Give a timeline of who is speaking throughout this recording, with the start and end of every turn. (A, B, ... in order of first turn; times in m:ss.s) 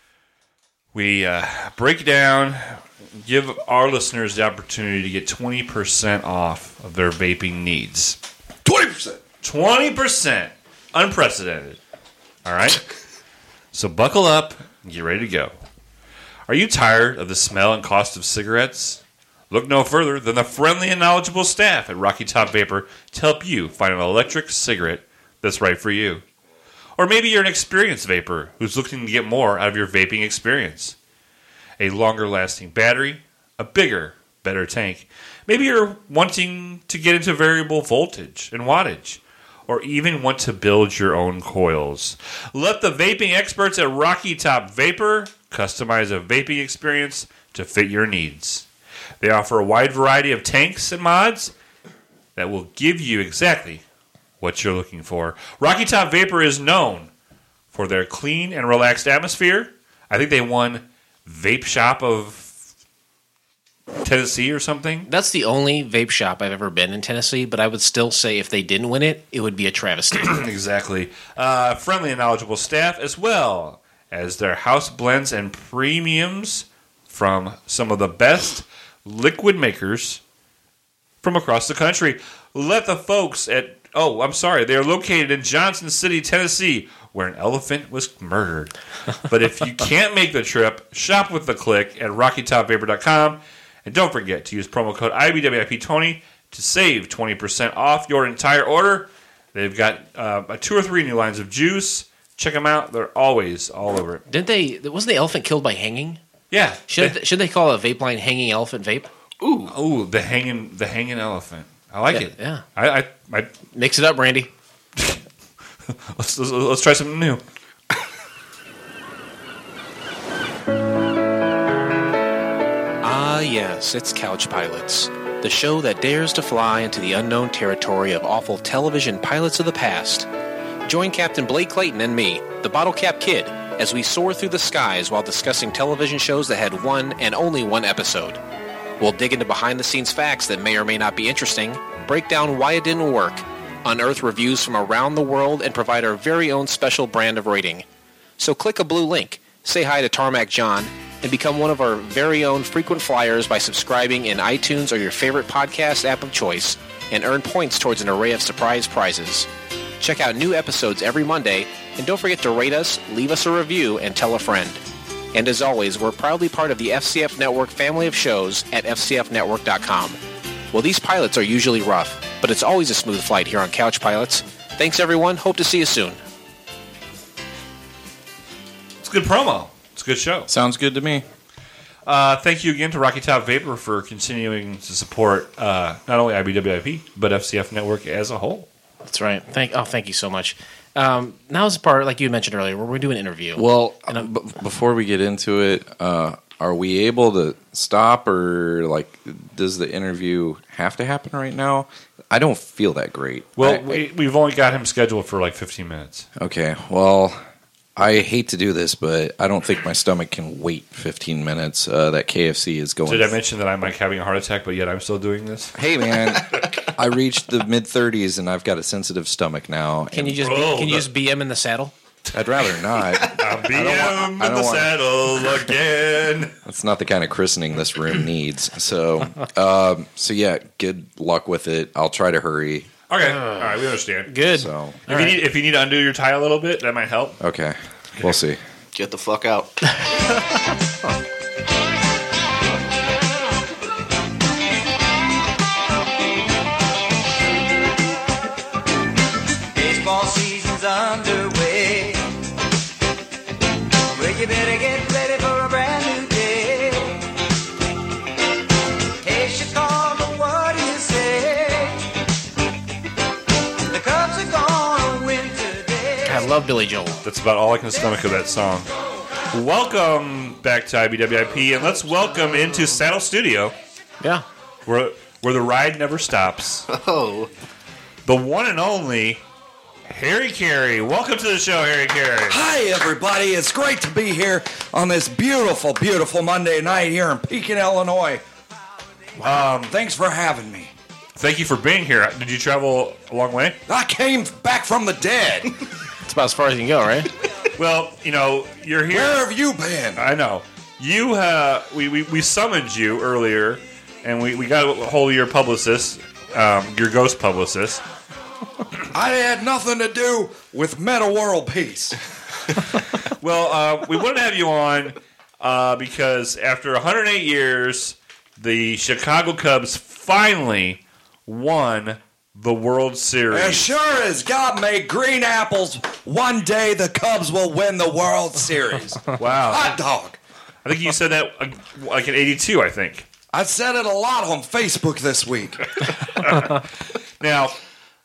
0:00.9-0:08.2 A
0:08.6-0:09.2 B
0:09.4-0:11.8 A
0:12.4-0:12.8 A
0:13.7-0:15.5 A
0:16.5-0:26.2 A
0:27.0-0:31.0 A
0:31.8-0:48.6 A
0:49.2-0:51.5 A
0:52.4-0:53.8 A
0:54.4-0:57.1 A
0:57.7-1:02.5 A
1:04.0-1:05.1 A
1:05.1-1:10.4 C
1:10.2-1:20.2 A
1:21.2-1:28.7 A
1:29.3-1:44.2 A
1:44.3-1:46.2 C
1:46.5-1:47.2 A
1:46.9-1:49.1 C
1:49.4-1:49.7 D
1:49.7-1:53.5 A
1:52.1-1:52.6 C
1:53.7-1:54.5 C
1:56.1-1:57.4 A
2:03.0-2:10.3 C
2:10.8-2:18.4 C
2:19.0-2:27.8 C
2:28.4-2:39.5 C
2:40.0-2:44.8 C
2:45.3-2:50.2 C
2:50.7-2:56.2 C
2:59.0-3:00.5 A
3:00.5-3:01.2 B
3:02.0-3:08.7 A
3:09.0-3:14.2 C
3:13.6-3:24.0 B
3:23.6-3:26.2 A
3:26.4-3:27.4 B
3:28.0-3:33.4 B
3:33.0-3:35.7 A
3:35.7-3:40.4 B
3:40.1-3:41.9 C
3:40.4-3:41.1 A
3:42.3-3:44.9 B
3:43.2-3:46.5 A
3:46.6-3:52.9 B
3:53.1-3:54.4 A
3:53.2-3:53.7 C
3:54.3-3:55.4 C
3:54.5-3:55.0 B
3:55.1-3:57.4 A
3:57.4-3:58.6 B
3:58.9-3:59.9 D
4:09.7-4:12.3 E
4:14.1-4:17.3 E
4:19.2-4:22.1 E
4:23.9-4:26.5 E
4:26.2-4:27.2 C
4:27.2-4:28.9 A
4:29.5-4:33.7 A
4:34.8-4:36.9 A
4:36.9-4:37.5 D
4:38.2-4:39.4 A
4:40.1-4:42.6 A
4:42.5-4:48.4 B
4:49.4-4:49.9 A
4:49.9-4:50.9 B
4:51.4-4:53.8 A
4:53.9-4:55.7 B
4:56.2-4:57.3 C
4:57.8-4:59.4 A
4:59.1-5:00.2 B
5:00.2-5:08.0 A
5:09.1-5:12.1 B
5:13.3-5:23.9 A
5:23.5-5:30.4 B
5:29.4-5:30.0 A
5:30.8-5:33.3 A
5:33.5-5:35.8 B
5:36.0-5:36.8 A
5:37.4-5:37.8 A